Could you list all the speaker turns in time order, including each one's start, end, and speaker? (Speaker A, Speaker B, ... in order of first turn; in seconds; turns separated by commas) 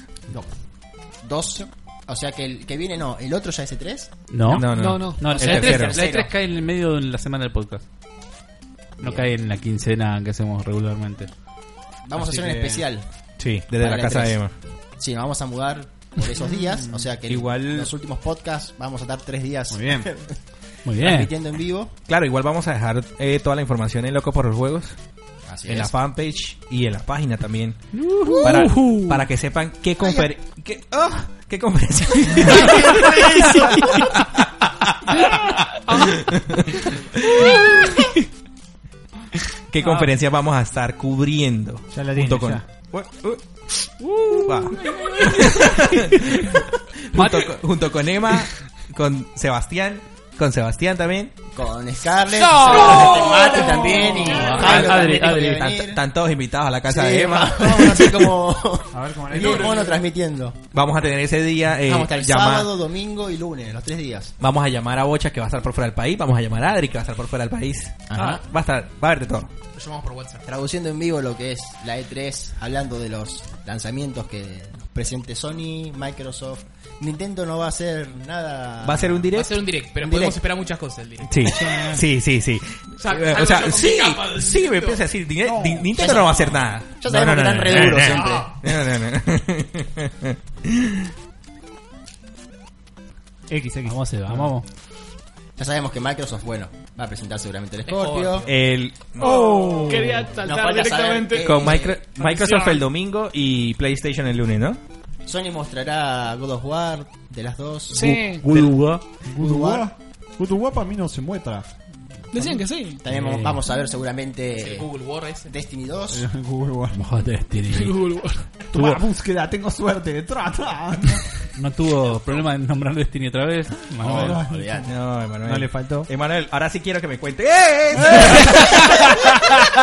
Speaker A: 0.3-4.3, Speaker B: 4.3-7.8, Speaker C: 4.5-6.0, Speaker D: 4.6-5.4, Speaker A: 5.2-6.3, Speaker B: 9.0-11.3, Speaker A: 9.0-9.3, Speaker A: 12.0-21.9, Speaker E: 12.1-12.9, Speaker C: 13.4-14.6, Speaker E: 16.4-17.1, Speaker C: 17.3-17.9, Speaker E: 19.7-20.1, Speaker B: 20.8-21.3, Speaker C: 22.1-25.0, Speaker A: 25.4-25.9, Speaker C: 25.7-36.8, Speaker B: 27.9-29.3, Speaker A: 28.4-28.7, Speaker A: 30.0-30.3, Speaker A: 32.6-33.6, Speaker D: 35.2-36.1, Speaker C: 39.7-51.4, Speaker B: 39.8-40.1, Speaker E: 41.9-42.7, Speaker B: 44.1-45.3, Speaker D: 44.8-45.6, Speaker B: 47.1-47.6, Speaker A: 51.5-56.0, Speaker F: 52.5-54.8, Speaker B: 52.7-55.9, Speaker C: 55.9-58.4, Speaker A: 56.9-60.6, Speaker E: 58.9-59.9, Speaker F: 59.3-60.0, Speaker C: 60.7-62.7, Speaker A: 61.8-64.3, Speaker C: 64.4-69.5, Speaker A: 68.1-68.4, Speaker F: 69.7-70.4, Speaker A: 70.5-79.3, Speaker C: 78.8-79.6, Speaker F: 79.3-81.6, Speaker A: 80.0-80.4, Speaker C: 81.2-91.1, Speaker E: 81.5-82.0, Speaker F: 83.0-85.0, Speaker E: 85.4-86.0, Speaker A: 85.9-88.5, Speaker F: 88.1-88.5, Speaker E: 93.5-94.5, Speaker B: 93.8-94.7, Speaker A: 95.6-98.5, Speaker F: 97.8-98.6, Speaker C: 98.5-100.1, Speaker D: 99.2-102.8, Speaker E: 99.2-100.3, Speaker A: 100.4-102.0, Speaker C: 101.4-104.8, Speaker A: 105.3-109.9, Speaker B: 107.9-109.1, Speaker D: 108.0-108.5, Speaker E: 109.3-111.8, Speaker E: 112.3-112.6, Speaker D: 112.3-113.0, Speaker A: 113.0-116.2, Speaker B: 113.1-113.6, Speaker F: 114.5-115.5, Speaker E: 116.1-117.1, Speaker B: 116.9-118.1, Speaker D: 117.7-118.7, Speaker B: 118.7-119.0, Speaker E: 118.7-121.3, Speaker B: 121.6-124.4, Speaker E: 124.0-126.1, Speaker A: 124.0-124.9, Speaker C: 124.9-128.5, Speaker E: 127.9-128.4